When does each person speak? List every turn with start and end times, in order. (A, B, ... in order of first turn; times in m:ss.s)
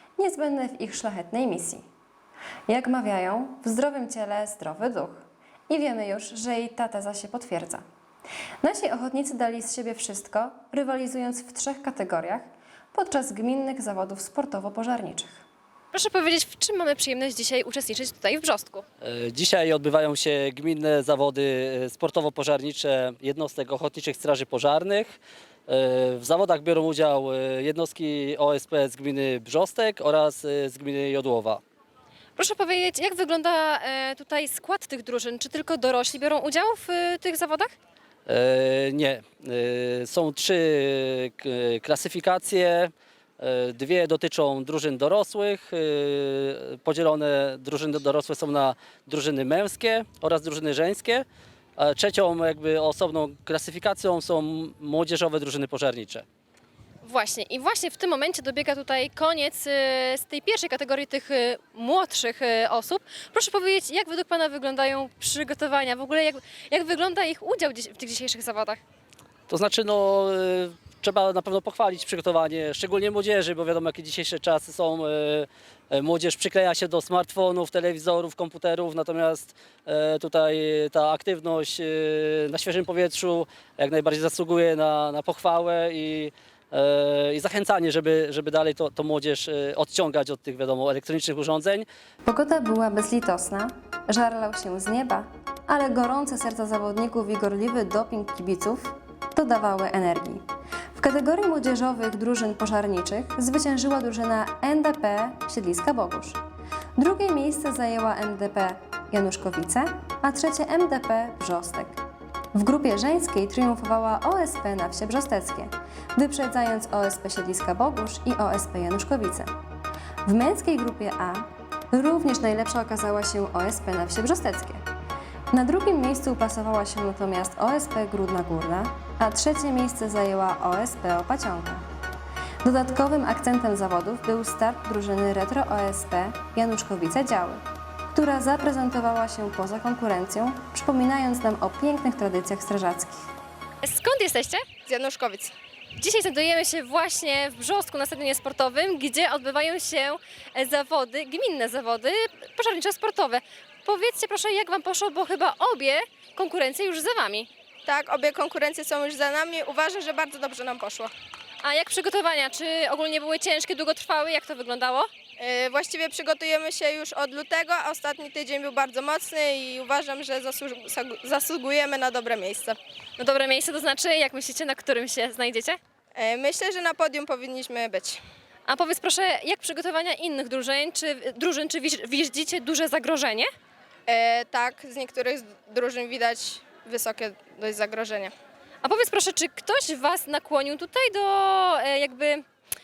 0:00.2-0:01.8 A
0:02.7-0:07.8 A
0:08.6-0:15.4 A
0:15.9-0:18.8 B
0:19.0-0:25.2 C
0:25.7-0:31.6 C
0:32.4-0:37.7 B
0:38.3-0:51.2 C
0:51.8-0:56.2 C
0:57.0-1:08.8 B
1:09.5-1:31.8 C
1:32.2-1:40.4 A
1:40.9-1:46.4 A
1:47.0-1:52.0 A
1:52.5-1:59.5 A
2:00.2-2:04.8 A
2:05.5-2:11.8 A
2:12.6-2:17.6 A
2:18.1-2:23.2 A
2:23.8-2:24.6 B
2:24.9-2:25.5 D
2:26.0-2:37.5 B
2:37.8-2:41.1 D
2:41.6-2:45.1 B
2:45.4-2:52.8 D
2:53.2-2:55.8 B
2:56.2-2:58.2 D
2:58.7-3:03.5 B
3:04.1-3:08.3 D
3:08.8-3:12.4 B